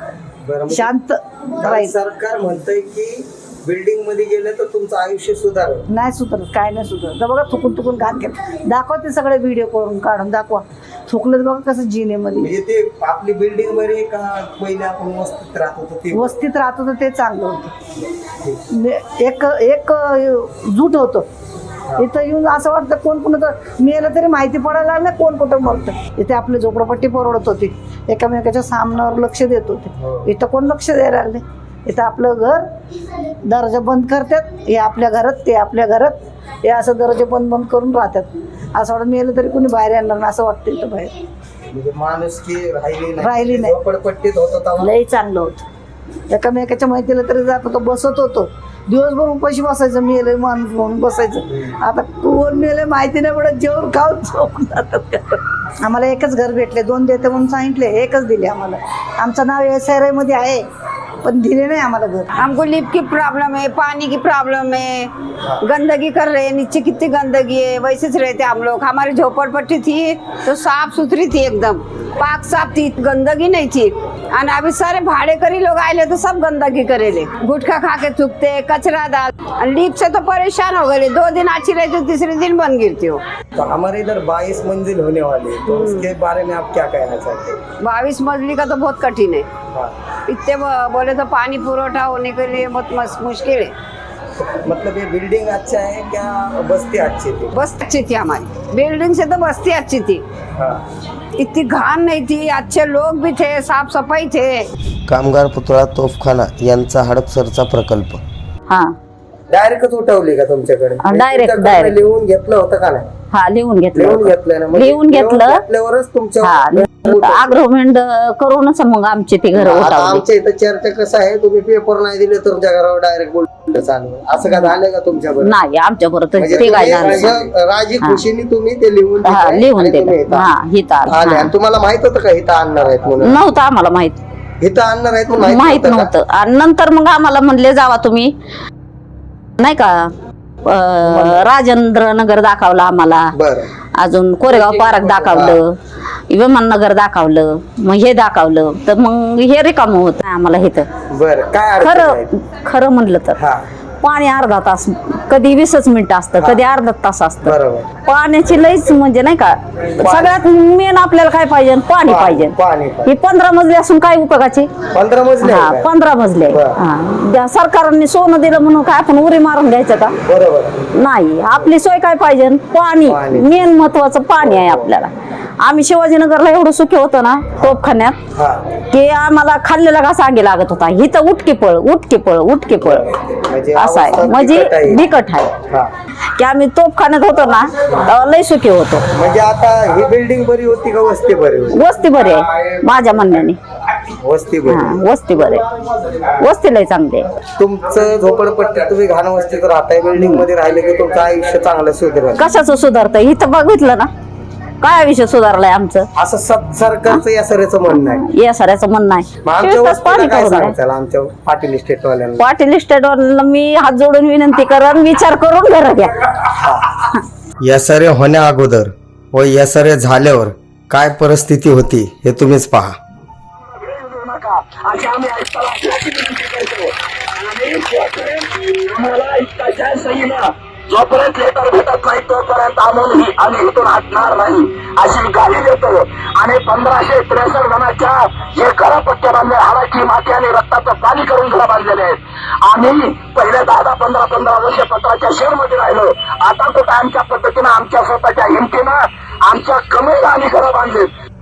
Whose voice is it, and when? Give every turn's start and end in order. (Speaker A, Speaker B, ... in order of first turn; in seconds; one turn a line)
Speaker A: 0.4-0.9
Speaker B: 0.7-1.9
Speaker A: 1.6-5.9
Speaker B: 5.9-12.5
Speaker A: 12.4-16.4
Speaker B: 16.1-17.7
Speaker B: 18.7-21.3
Speaker B: 22.0-32.7
Speaker A: 29.9-30.3
Speaker B: 33.5-41.1
Speaker A: 41.7-44.9
Speaker B: 43.2-43.7
Speaker B: 44.8-45.6
Speaker B: 46.3-60.6
Speaker B: 61.2-62.3
Speaker C: 62.4-83.2
Speaker A: 83.6-87.6
Speaker C: 85.7-86.1
Speaker C: 87.8-89.5
Speaker C: 90.3-93.7
Speaker A: 94.4-97.6
Speaker C: 97.5-100.2
Speaker A: 100.6-100.8
Speaker C: 101.4-104.6
Speaker A: 105.1-108.2
Speaker D: 108.7-108.9
Speaker A: 109.5-113.1
Speaker D: 111.0-112.0
Speaker D: 113.3-115.6
Speaker A: 113.9-117.6
Speaker D: 116.4-120.2
Speaker A: 119.5-125.5
Speaker D: 125.4-127.4
Speaker A: 126.4-130.5
Speaker D: 129.2-131.5
Speaker A: 131.1-133.4
Speaker D: 133.2-134.2
Speaker A: 134.6-136.1
Speaker D: 135.3-138.3
Speaker D: 139.6-140.1
Speaker D: 140.7-143.3
Speaker A: 141.0-141.5
Speaker A: 143.3-143.7
Speaker D: 144.0-145.8
Speaker A: 144.5-145.6
Speaker D: 146.3-150.9
Speaker A: 151.1-152.3
Speaker D: 151.8-153.4
Speaker A: 153.4-153.7
Speaker D: 154.0-162.5
Speaker A: 156.4-156.6
Speaker A: 157.4-157.9
Speaker A: 160.0-160.4
Speaker A: 162.0-163.1
Speaker D: 163.1-164.7
Speaker A: 164.9-165.9
Speaker D: 165.4-170.2
Speaker A: 166.5-166.8
Speaker A: 170.2-170.9
Speaker D: 171.0-175.1
Speaker A: 173.0-174.9
Speaker D: 175.6-178.2
Speaker A: 178.3-178.7
Speaker D: 178.9-183.1
Speaker A: 182.8-185.0
Speaker D: 183.8-185.6
Speaker A: 185.6-185.9
Speaker D: 186.4-189.1
Speaker A: 189.1-191.8
Speaker D: 191.7-193.6
Speaker A: 194.2-195.0
Speaker D: 194.7-195.6
Speaker D: 196.4-197.3
Speaker A: 197.6-202.4
Speaker D: 200.2-200.4
Speaker D: 202.4-204.1
Speaker D: 204.8-206.1
Speaker A: 206.2-208.2
Speaker D: 208.2-210.8
Speaker A: 209.4-212.4
Speaker D: 212.4-216.2
Speaker A: 216.6-216.9
Speaker A: 217.6-223.0
Speaker E: 223.6-251.1